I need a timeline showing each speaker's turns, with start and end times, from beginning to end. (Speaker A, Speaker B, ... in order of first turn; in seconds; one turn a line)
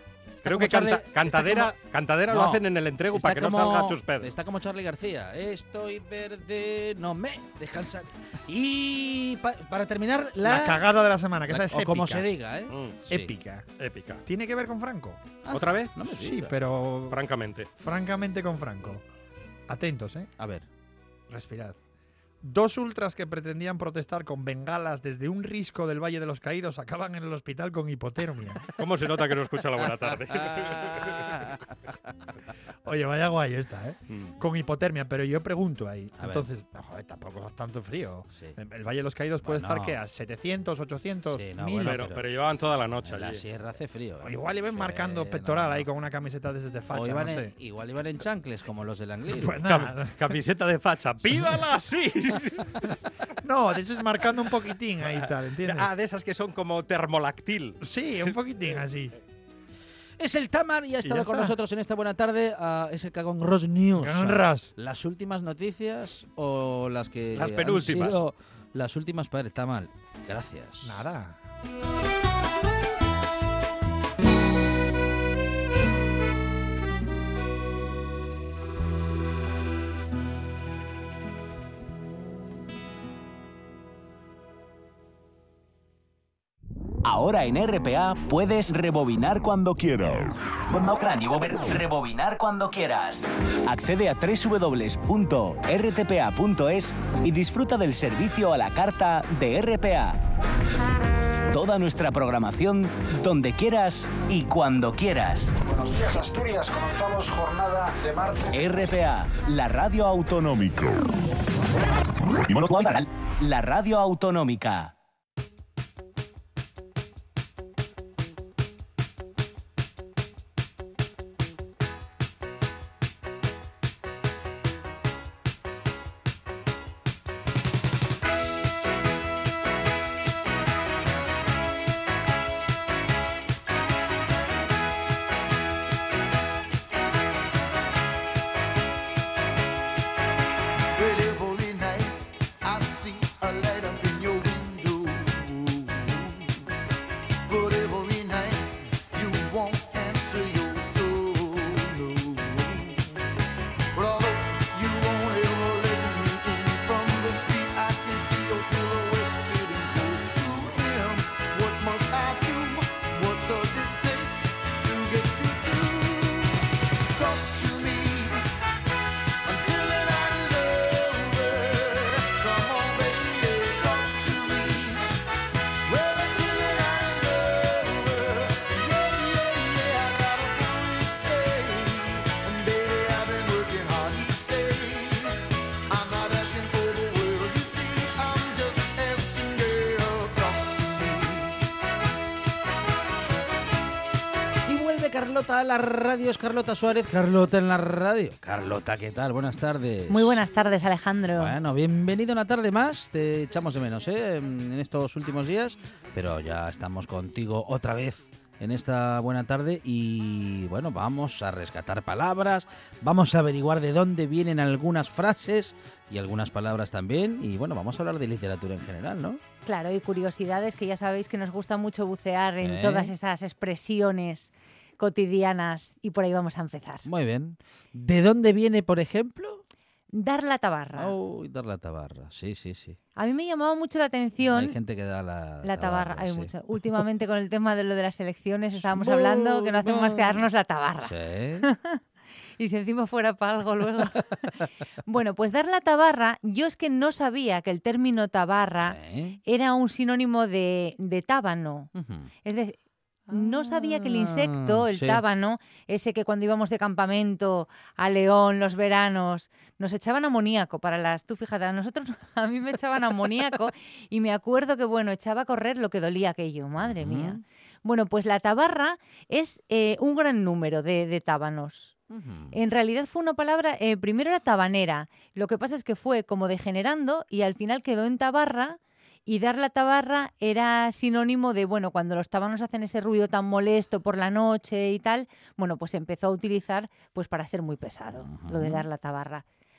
Speaker A: 0.4-4.4
Speaker B: 0.4-1.7
Speaker B: 2.3-10.8
Speaker C: 10.4-12.3
Speaker B: 11.5-13.3
Speaker A: 12.7-13.0
Speaker C: 13.1-13.7
Speaker A: 13.8-14.2
Speaker C: 14.2-15.2
Speaker B: 15.4-16.5
Speaker A: 15.5-15.9
Speaker C: 16.0-17.2
Speaker A: 17.1-17.7
Speaker C: 17.8-19.0
Speaker C: 19.7-20.3
Speaker B: 20.4-20.7
Speaker C: 21.3-21.8
Speaker C: 22.4-28.7
Speaker A: 28.8-31.4
Speaker B: 29.9-31.6
Speaker C: 32.8-42.1
Speaker A: 34.1-34.3
Speaker B: 36.2-36.5
Speaker B: 39.4-40.0
Speaker B: 41.3-42.4
Speaker A: 41.8-43.4
Speaker B: 43.0-45.8
Speaker C: 44.2-47.5
Speaker B: 46.9-49.6
Speaker C: 49.3-50.3
Speaker A: 49.6-52.9
Speaker C: 53.4-55.9
Speaker A: 55.6-57.8
Speaker C: 57.8-59.1
Speaker B: 60.2-71.0
Speaker C: 61.0-61.5
Speaker C: 64.0-64.7
Speaker A: 67.3-68.2
Speaker C: 70.8-71.4
Speaker D: 87.0-100.2
Speaker D: 101.5-105.5
Speaker E: 105.6-108.7
Speaker D: 108.5-111.0
Speaker D: 112.4-114.9
Speaker F: 140.9-146.6
Speaker F: 147.4-153.1
Speaker F: 153.9-168.4
Speaker F: 169.4-175.1
Speaker F: 175.8-191.6
Speaker B: 194.7-200.4
Speaker G: 200.1-201.5
Speaker B: 201.4-219.4
Speaker G: 219.6-227.1
Speaker B: 222.6-223.1
Speaker B: 227.1-229.6
Speaker G: 230.1-231.2
Speaker B: 230.9-233.0
Speaker G: 233.2-234.8
Speaker B: 234.4-236.5
Speaker G: 235.6-242.0
Speaker B: 238.8-240.4
Speaker B: 241.0-241.7
Speaker G: 242.6-244.5
Speaker G: 245.0-251.9
Speaker B: 248.8-249.4
Speaker B: 251.9-252.3
Speaker G: 252.4-252.8
Speaker B: 253.3-255.2
Speaker G: 253.3-271.9
Speaker B: 266.8-267.4
Speaker B: 272.1-272.6
Speaker G: 272.5-289.4
Speaker B: 288.2-288.8